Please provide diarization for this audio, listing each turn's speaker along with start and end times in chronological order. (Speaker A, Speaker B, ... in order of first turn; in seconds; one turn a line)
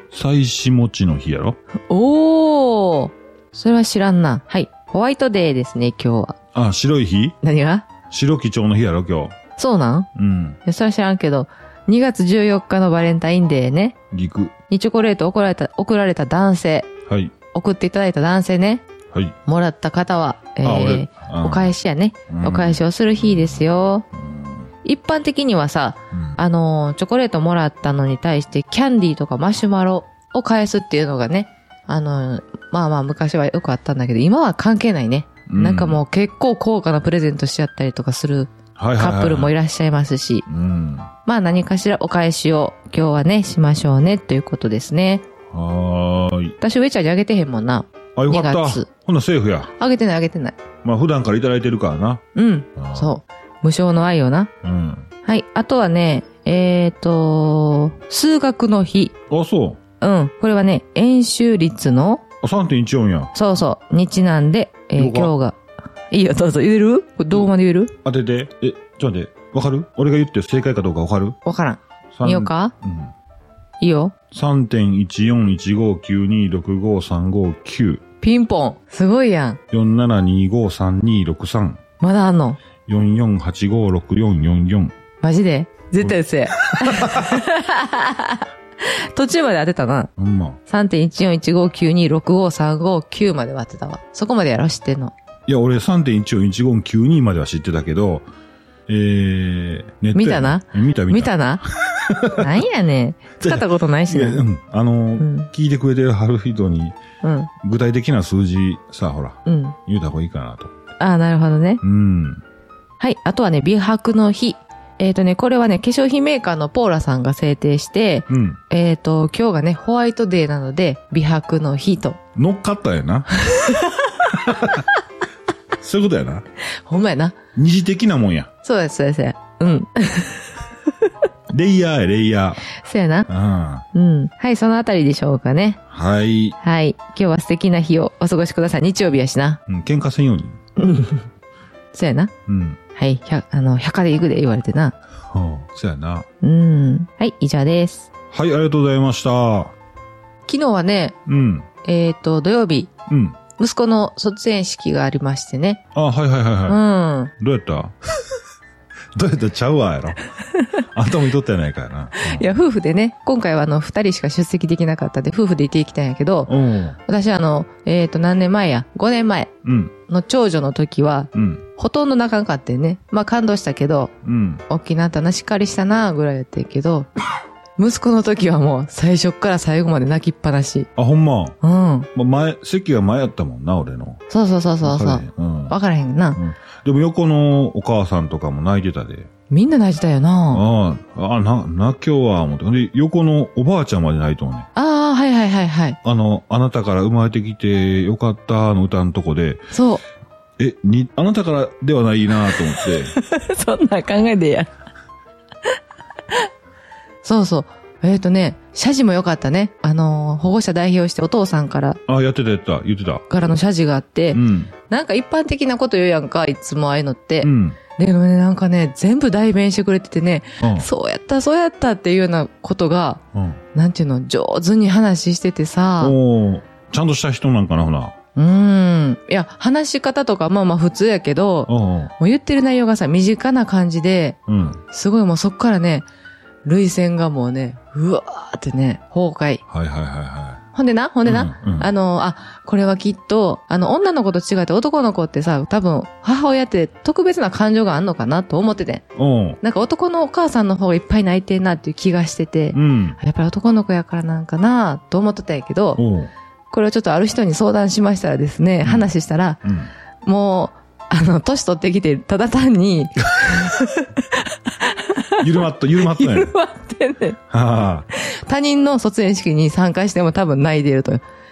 Speaker A: 0.1-1.6
Speaker B: 1.9-6.3
Speaker A: 6.5-7.4
Speaker B: 7.4-7.9
Speaker A: 8.1-9.4
Speaker B: 9.6-10.1
Speaker A: 10.1-10.6
Speaker B: 10.6-14.0
Speaker A: 14.1-14.5
Speaker B: 14.7-16.9
Speaker A: 17.1-17.3
Speaker B: 17.5-18.8
Speaker B: 19.4-24.1
Speaker A: 20.6-21.7
Speaker A: 22.3-23.5
Speaker A: 24.1-24.6
Speaker B: 24.8-40.5
Speaker A: 26.1-26.4
Speaker A: 35.5-36.0
Speaker A: 38.8-39.5
Speaker A: 40.5-41.1
Speaker B: 41.2-45.2
Speaker A: 45.5-46.5
Speaker B: 46.6-48.9
Speaker A: 48.1-49.7
Speaker B: 49.8-50.6
Speaker A: 50.8-52.2
Speaker B: 52.3-54.5
Speaker A: 52.8-53.1
Speaker A: 54.6-55.1
Speaker B: 55.2-59.1
Speaker A: 59.3-59.8
Speaker B: 60.0-62.2
Speaker A: 62.4-63.3
Speaker B: 63.3-65.6
Speaker A: 65.0-65.3
Speaker B: 66.1-67.9
Speaker A: 68.0-71.4
Speaker B: 71.4-72.7
Speaker A: 72.1-73.1
Speaker B: 73.8-74.1
Speaker A: 74.3-78.0
Speaker B: 78.2-79.6
Speaker A: 79.7-81.8
Speaker B: 82.0-82.6
Speaker A: 82.8-84.9
Speaker B: 85.2-90.1
Speaker A: 86.0-87.3
Speaker A: 90.2-90.6
Speaker B: 90.7-95.1
Speaker A: 95.5-98.2
Speaker A: 98.9-102.6
Speaker B: 100.1-101.6
Speaker B: 102.3-104.4
Speaker A: 103.4-107.0
Speaker B: 105.2-105.5
Speaker B: 107.2-107.5
Speaker A: 107.6-110.7
Speaker B: 109.5-109.8
Speaker B: 111.0-111.8
Speaker A: 111.8-112.4
Speaker B: 113.0-122.2
Speaker A: 118.3-118.6
Speaker A: 122.3-123.4
Speaker B: 123.4-124.3
Speaker A: 124.3-124.9
Speaker A: 125.8-126.4
Speaker B: 126.8-127.4
Speaker A: 127.5-128.5
Speaker B: 128.6-131.1
Speaker A: 131.5-132.7
Speaker B: 132.7-133.3
Speaker A: 133.3-133.8
Speaker B: 133.9-135.8
Speaker A: 135.9-136.6
Speaker B: 136.6-139.6
Speaker A: 139.7-140.6
Speaker B: 140.8-141.2
Speaker B: 141.9-142.3
Speaker A: 142.5-142.8
Speaker B: 142.9-144.9
Speaker A: 145.3-146.3
Speaker B: 146.4-148.1
Speaker A: 148.3-149.7
Speaker B: 150.4-151.2
Speaker A: 151.3-151.7
Speaker B: 151.8-152.9
Speaker A: 153.1-153.4
Speaker B: 153.6-155.8
Speaker A: 155.9-156.8
Speaker B: 156.7-157.3
Speaker A: 157.4-157.9
Speaker A: 159.2-162.4
Speaker B: 162.2-169.5
Speaker A: 166.5-167.0
Speaker A: 169.6-169.9
Speaker B: 170.1-174.1
Speaker A: 171.3-171.6
Speaker A: 174.2-174.6
Speaker B: 174.7-177.1
Speaker B: 177.8-180.9
Speaker A: 180.9-181.6
Speaker B: 181.6-182.1
Speaker A: 182.1-184.2
Speaker B: 184.3-186.4
Speaker A: 184.8-185.7
Speaker A: 186.3-189.3
Speaker B: 189.5-190.6
Speaker A: 190.5-194.7
Speaker B: 194.7-196.0
Speaker A: 196.0-199.7
Speaker B: 199.7-200.0
Speaker A: 200.6-203.1
Speaker B: 202.5-204.7
Speaker B: 207.2-212.0
Speaker A: 212.1-213.3
Speaker B: 213.3-223.2
Speaker A: 214.3-214.7
Speaker A: 217.4-217.8
Speaker A: 220.6-220.9
Speaker A: 223.3-223.6
Speaker B: 223.7-226.2
Speaker A: 226.0-228.1
Speaker B: 228.3-234.4
Speaker A: 231.7-232.1
Speaker A: 234.5-234.8
Speaker B: 234.9-236.1
Speaker B: 236.6-239.6
Speaker A: 239.7-240.6
Speaker B: 240.7-249.0
Speaker A: 241.2-241.9
Speaker A: 249.2-249.6
Speaker B: 249.6-256.0
Speaker A: 252.7-253.2
Speaker A: 256.0-256.3
Speaker B: 256.7-259.6
Speaker A: 258.8-259.1
Speaker A: 259.6-259.9
Speaker B: 260.2-267.4
Speaker A: 265.4-266.5
Speaker A: 267.5-268.1
Speaker B: 268.1-271.2